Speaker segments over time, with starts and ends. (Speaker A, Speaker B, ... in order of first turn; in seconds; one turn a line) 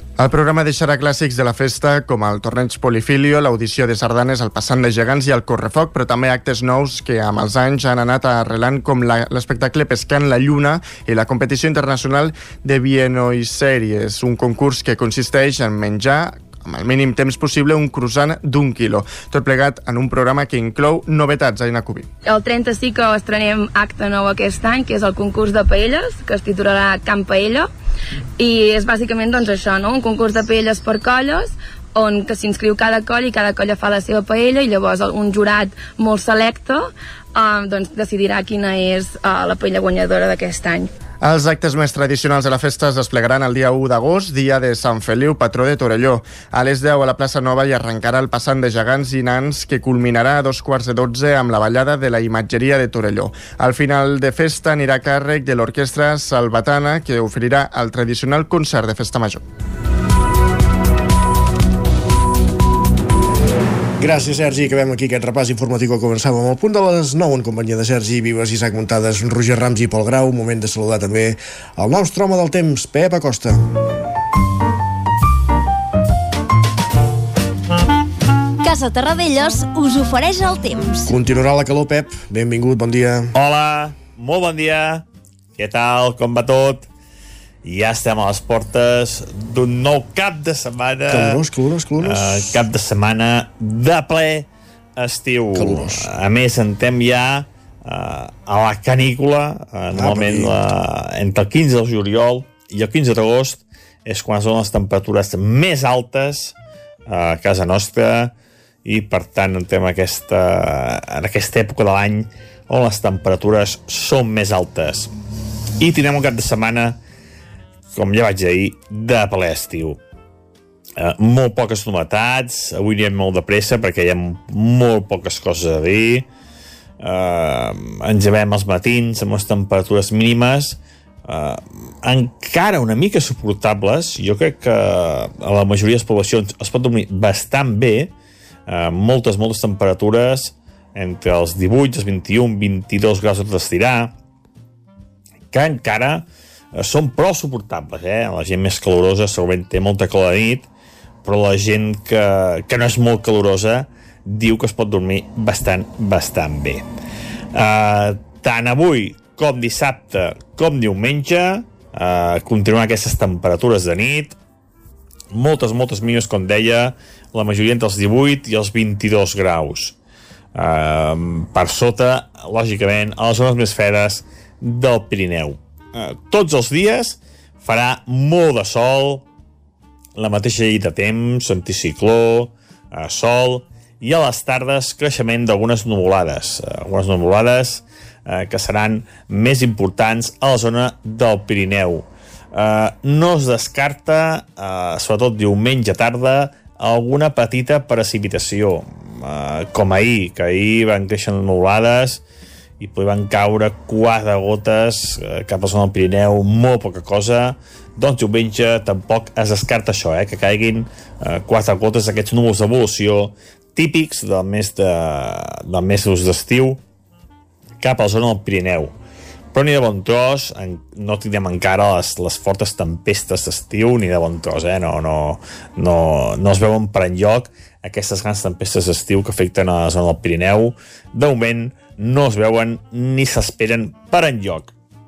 Speaker A: 0.2-22.1
Speaker B: 22.2-27.7
Speaker B: 28.4-40.9
Speaker A: 41.2-59.4
Speaker C: 64.0-73.9
Speaker D: 78.6-81.1
Speaker C: 81.0-83.3
Speaker E: 83.3-85.0
Speaker E: 85.6-86.8
Speaker E: 87.6-91.4
Speaker C: 91.1-92.5
Speaker E: 92.0-94.5
Speaker E: 95.0-106.5
Speaker C: 95.5-96.0
Speaker C: 99.9-100.5
Speaker E: 107.1-108.3
Speaker E: 108.8-115.1
Speaker E: 115.8-117.0
Speaker E: 117.9-120.0
Speaker E: 121.0-126.2
Speaker E: 127.0-138.1
Speaker E: 138.7-144.1
Speaker E: 145.5-150.7
Speaker E: 151.2-156.8
Speaker E: 157.5-164.3
Speaker E: 165.3-169.9
Speaker E: 170.5-179.2
Speaker E: 180.2-202.2
Speaker E: 202.8-216.8
Speaker E: 217.8-218.9
Speaker E: 219.5-234.7